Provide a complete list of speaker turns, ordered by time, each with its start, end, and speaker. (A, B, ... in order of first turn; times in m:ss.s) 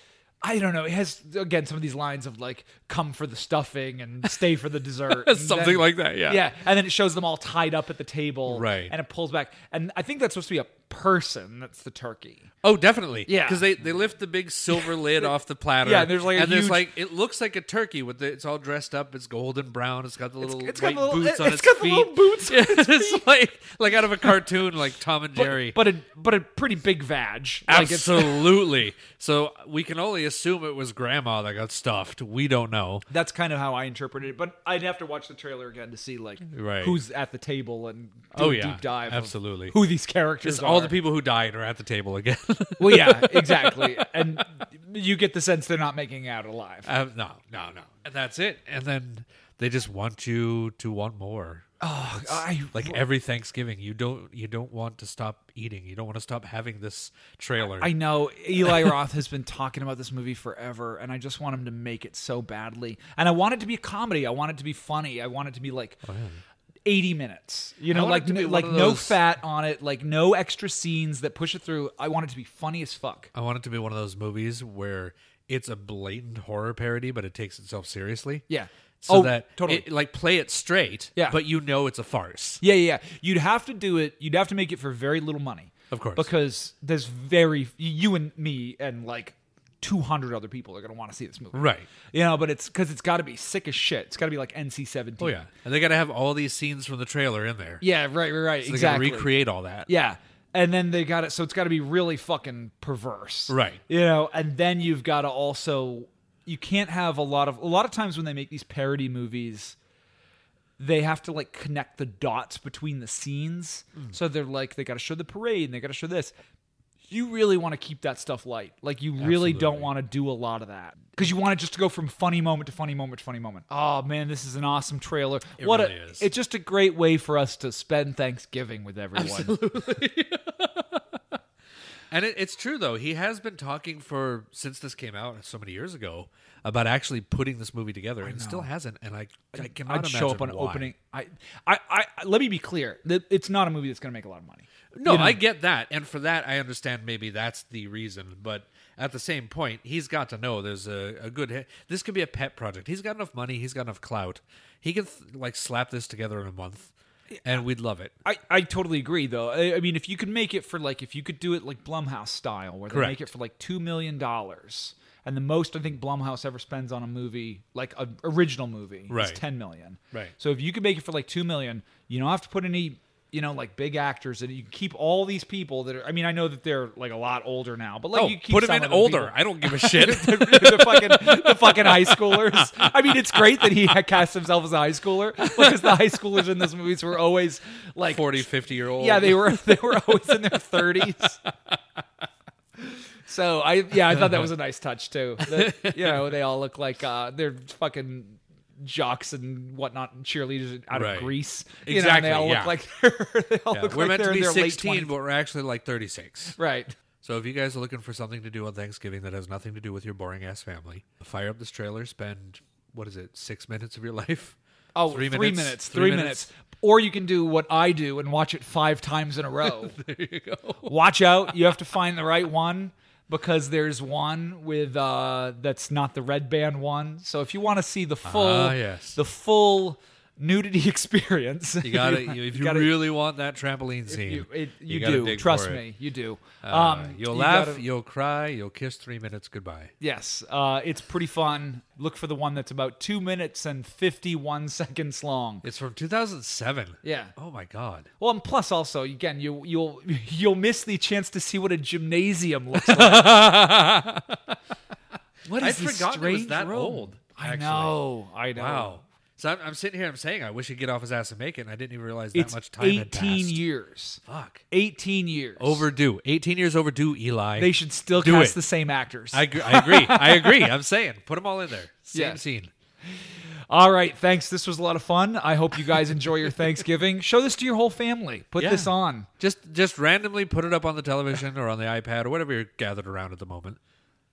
0:00.4-0:12.5 A
0:05.1-0:06.5 B
0:08.5-0:08.9 B
0:12.6-0:25.8 B
0:13.2-0:13.7 A
0:14.7-0:15.3 A
0:15.8-0:16.9 A
0:20.4-0:23.3 A
0:25.3-0:28.6 A
0:27.7-0:33.0 B
0:33.1-0:41.0 A
0:36.5-0:37.0 B
0:38.3-0:39.8 B
0:40.4-0:44.4 B
0:42.8-0:46.9 A
0:46.8-0:58.0 B
0:51.8-0:53.0 A
0:57.8-1:06.0 A
0:58.6-0:58.9 B
1:06.0-1:06.4 B
1:06.8-1:13.3 A
1:07.9-1:09.2 B
1:13.3-1:18.4 B
1:18.5-1:19.9 A
1:19.0-1:22.6 B
1:22.6-1:35.4 A
1:25.9-1:26.3 B
1:31.5-1:31.9 B
1:35.2-1:37.8 B
1:37.8-1:39.3 A
1:38.6-1:39.9 B
1:39.8-1:49.8 A
1:43.5-1:43.8 B
1:50.8-1:56.3 A
1:57.0-2:09.6 A
1:59.2-1:59.9 B
2:05.6-2:06.3 B
2:09.1-2:11.2 B
2:12.1-2:20.9 B
2:18.2-2:18.7 A
2:19.5-2:25.4 A
2:24.9-2:36.9 B
2:37.4-2:38.1 B
2:38.2-3:11.4 A
2:42.9-2:43.2 B
2:49.1-2:49.4 B
2:58.1-3:03.8 B
3:05.6-3:05.8 B
3:08.0-3:11.7 B
3:13.2-3:25.1 A
3:14.1-3:14.5 B
3:15.4-3:16.3 B
3:20.9-3:22.7 B
3:23.7-3:26.6 B
3:26.5-3:26.9 A
3:27.2-3:34.6 B
3:34.9-3:40.0 A
3:35.1-3:36.5 B
3:39.6-3:41.0 B
3:40.8-3:53.0 A
3:48.2-3:49.2 B
3:51.8-3:55.8 B
3:54.1-3:57.8 A
3:56.6-3:59.9 B
4:00.0-4:05.6 A
4:05.6-4:08.1 B
4:07.0-4:07.3 A
4:08.2-4:13.5 A
4:12.7-4:14.5 B
4:15.4-4:19.0 A
4:15.5-4:23.6 B
4:22.3-4:25.8 A
4:24.3-4:24.6 B
4:25.6-4:28.6 B
4:27.6-4:30.7 A
4:29.3-4:32.7 B
4:32.1-4:32.4 A
4:33.2-4:39.3 A
4:38.6-4:43.8 B